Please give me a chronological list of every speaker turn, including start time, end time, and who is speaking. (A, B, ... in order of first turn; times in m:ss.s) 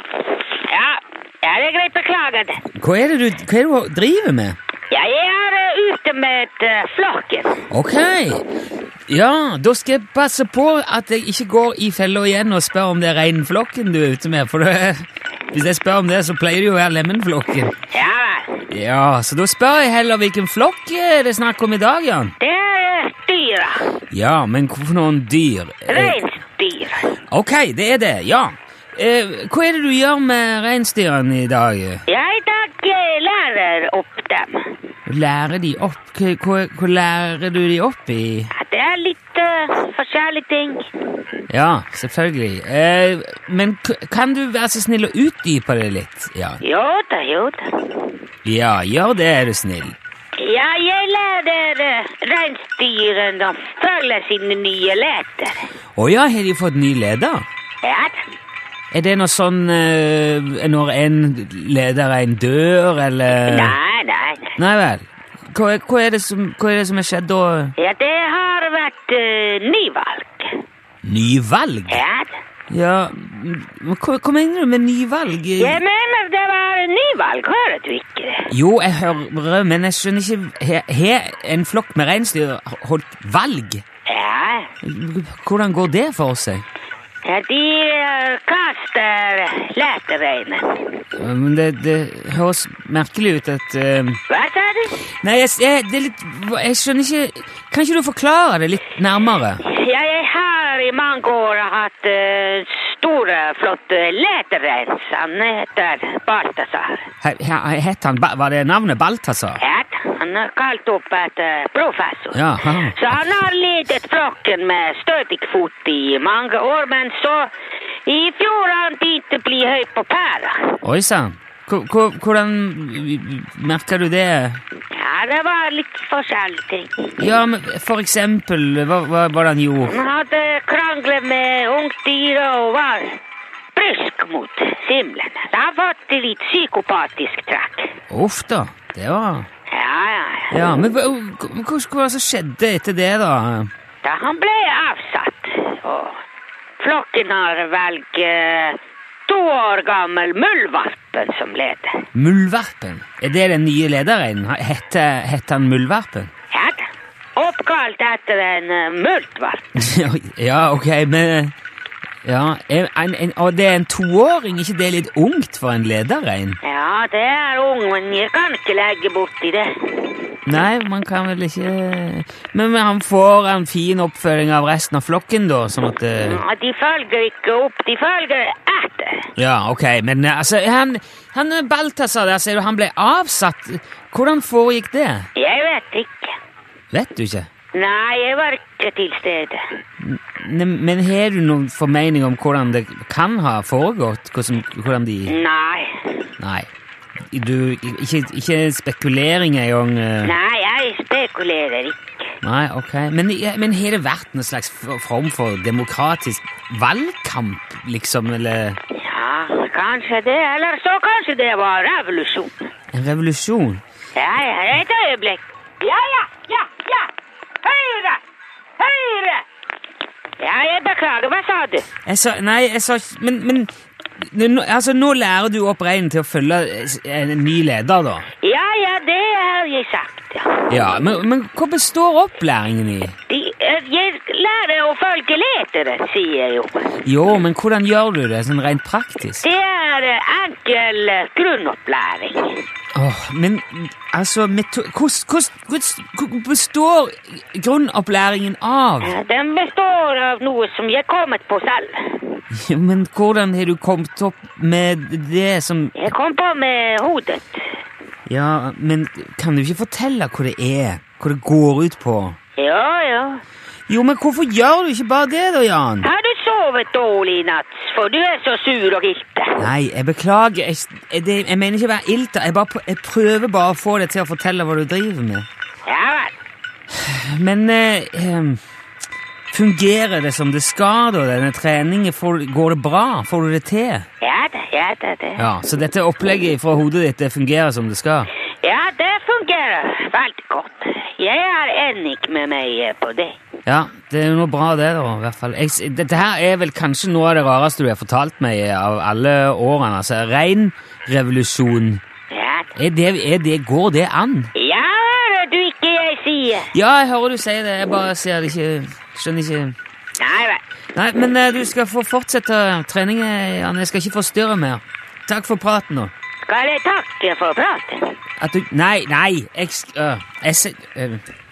0:00.5-0:02.6 A
0:02.8-0:04.6 B
0:04.9-0:07.6 A
0:07.7-0:08.4 B
0:09.1-0:17.8 B
0:17.9-0:18.7 A
0:18.7-0:22.3 B
0:22.4-0:23.9 A
0:24.1-0:26.2 B
0:25.9-0:27.1 A
0:27.3-0:32.0 B
0:32.1-0:34.7 A
0:35.1-0:38.5 B
0:38.5-0:40.9 A
0:41.5-0:46.6 B
0:46.6-0:48.1 A
0:48.4-0:50.0 B
0:50.4-0:55.7 A
0:56.0-0:57.5 B
0:57.8-0:58.2 A
0:58.9-1:03.8 B
1:03.4-1:04.6 A
1:04.6-1:07.7 B
1:07.8-1:10.6 A
1:11.0-1:12.0 B
1:11.9-1:12.4 A
1:12.7-1:15.8 B
1:15.6-1:18.5 A
1:18.5-1:23.8 B
1:24.1-1:24.7 A
1:24.8-1:26.6 B
1:27.2-1:31.0 A
1:31.2-1:34.2 B
1:34.3-1:35.0 A
1:35.2-1:39.6 B
1:39.6-1:47.1 A
1:47.2-1:49.6 B
1:49.6-1:57.5 A
1:52.3-1:53.4 B
1:58.1-2:00.8 A
2:00.8-2:04.6 B
2:04.9-2:07.1 A
2:07.2-2:10.0 B
2:09.8-2:13.2 A
2:13.8-2:17.9 A
2:18.1-2:19.5 B
2:19.7-2:20.5 A
2:20.5-2:23.7 B
2:24.0-2:26.2 A
2:26.8-2:32.1 A
2:32.1-2:36.3 B
2:36.5-2:39.6 A
2:39.8-2:41.5 B
2:42.2-2:46.6 B
2:46.6-2:50.2 A
2:50.5-2:56.4 B
2:56.3-2:59.3 A
2:59.4-3:05.3 B
3:05.4-3:06.3 A
3:06.9-3:07.5 B
3:07.7-3:09.6 A
3:10.0-3:15.4 B
3:15.3-3:16.2 A
3:16.4-3:16.7 B
3:17.3-3:20.3 B
3:20.2-3:22.0 A
3:22.4-3:28.8 B
3:28.9-3:32.7 A
3:32.9-3:33.8 B
3:34.2-3:37.1 A
3:37.6-3:38.2 A
3:38.8-3:39.4 A
3:40.4-3:41.9 A
3:42.1-3:48.3 B
3:48.4-3:50.9 A
3:50.7-3:53.2 B
3:53.3-3:56.9 A
3:57.0-3:59.4 B
3:59.4-4:02.7 A
4:03.0-4:09.2 B
4:09.0-4:12.4 A
4:12.5-4:16.1 B
4:16.0-4:17.7 A
4:18.3-4:22.4 B
4:22.6-4:23.4 A
4:23.9-4:26.1 B
4:26.0-4:29.6 A
4:29.6-4:35.5 B
4:35.8-4:36.3 A
4:36.9-4:38.6 B
4:39.5-4:44.1 B
4:44.2-4:45.5 A
4:45.4-4:48.3 B
4:48.6-4:53.4 A
4:53.7-5:02.0 B
5:02.3-5:02.7 A
5:02.8-5:04.5 B
5:04.6-5:06.7 A
5:06.7-5:09.8 B
5:10.2-5:10.6 A
5:11.0-5:16.1 B
5:16.5-5:18.2 A
5:18.4-5:21.2 B